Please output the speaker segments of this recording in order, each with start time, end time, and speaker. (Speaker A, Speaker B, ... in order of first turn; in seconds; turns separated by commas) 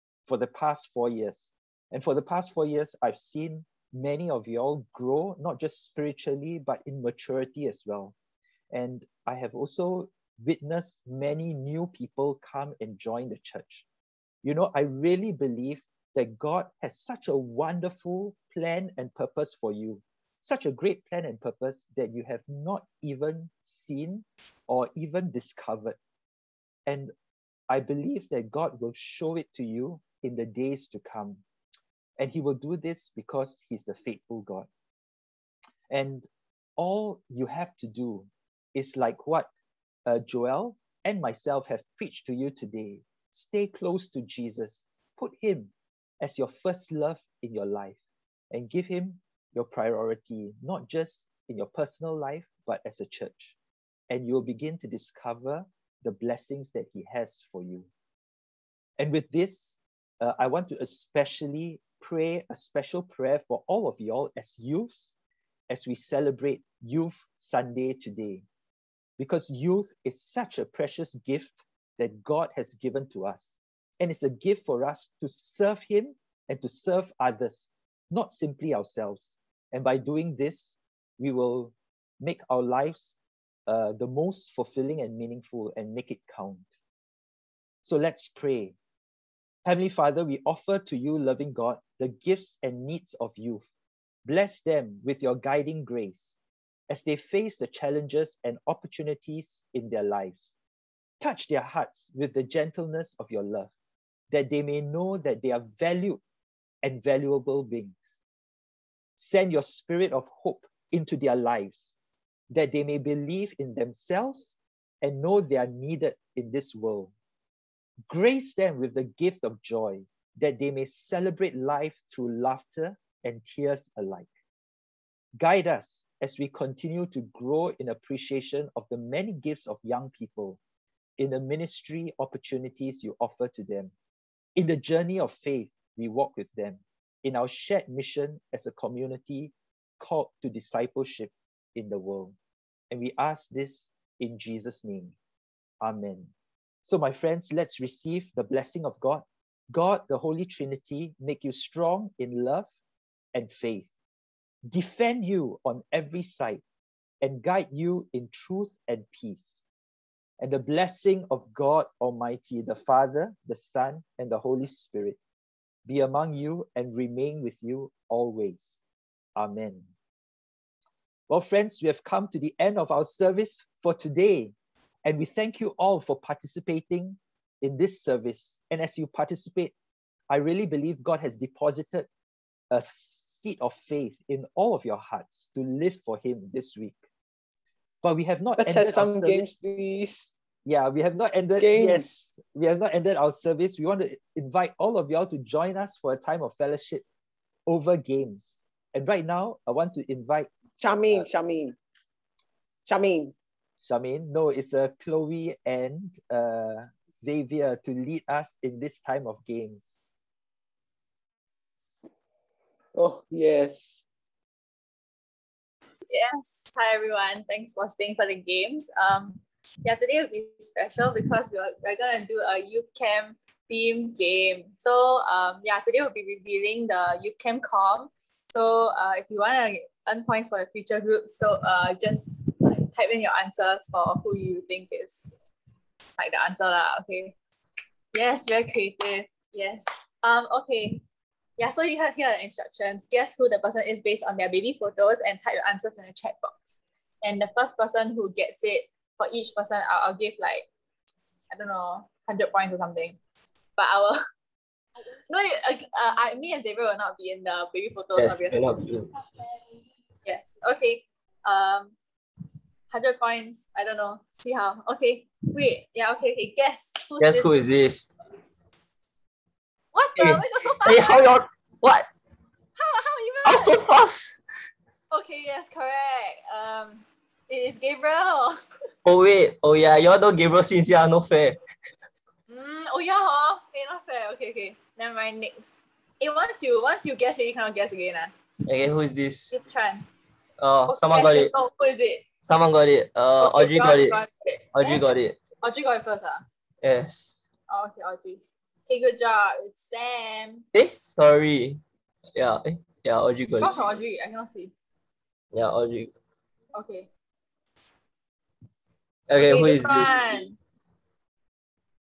Speaker A: 0.3-8.1, Speaker A: 8.7-13.8, Speaker A: 14.4-26.0, Speaker A: 26.9-27.1, Speaker A: 27.7-31.4, Speaker A: 32.2-34.7, Speaker A: 35.9-39.5, Speaker A: 40.1-48.0, Speaker A: 48.5-53.6, Speaker A: 54.1-57.9, Speaker A: 59.0-65.2, Speaker A: 65.7-68.5, Speaker A: 69.2-86.7, Speaker A: 87.8-88.8, Speaker A: 89.7-93.7, Speaker A: 94.2-96.4, Speaker A: 96.9-100.5, Speaker A: 101.2-103.7, Speaker A: 104.3-106.2, Speaker A: 106.8-108.2, Speaker A: 109.2-112.0, Speaker A: 112.5-117.1, Speaker A: 118.1-124.3, Speaker A: 125.4-130.6, Speaker A: 131.2-133.9, Speaker A: 134.6-142.4, Speaker A: 142.9-145.2, Speaker A: 145.8-146.3, Speaker A: 146.8-152.7, Speaker A: 153.3-153.9, Speaker A: 154.7-156.6, Speaker A: 157.2-159.6, Speaker A: 160.4-165.2, Speaker A: 165.8-168.8, Speaker A: 169.4-169.9, Speaker A: 171.3-174.5, Speaker A: 175.1-179.7, Speaker A: 180.3-182.1, Speaker A: 182.7-187.0, Speaker A: 188.0-189.5, Speaker B: 188.6-190.3, Speaker A: 190.7-197.0, Speaker B: 191.6-192.1, Speaker A: 197.7-200.5, Speaker B: 200.8-201.8, Speaker B: 202.9-203.3, Speaker A: 203.8-209.9, Speaker B: 212.9-214.0, Speaker C: 216.1-235.5, Speaker C: 236.2-237.3, Speaker C: 238.1-241.0, Speaker C: 241.6-250.7, Speaker C: 251.5-253.2, Speaker C: 253.8-254.2, Speaker C: 255.3-258.9, Speaker D: 258.2-259.1, Speaker C: 260.2-261.9, Speaker C: 262.9-267.6, Speaker D: 267.2-268.1, Speaker C: 269.9-271.4, Speaker D: 270.2-272.1, Speaker C: 272.8-273.8, Speaker D: 273.4-274.4, Speaker C: 275.1-278.9, Speaker D: 279.1-281.6, Speaker C: 282.5-288.3, Speaker D: 288.7-289.6, Speaker C: 289.5-290.1, Speaker D: 290.6-291.5, Speaker C: 290.9-292.3, Speaker D: 292.4-294.2, Speaker C: 293.4-295.1, Speaker D: 294.7-295.4, Speaker C: 295.6-296.4, Speaker D: 296.8-297.4, Speaker C: 297.7-300.7, Speaker D: 300.7-301.8, Speaker D: 302.4-303.8, Speaker C: 303.6-304.7, Speaker D: 305.5-306.1, Speaker C: 306.7-307.1, Speaker D: 309.3-310.4, Speaker C: 309.4-310.6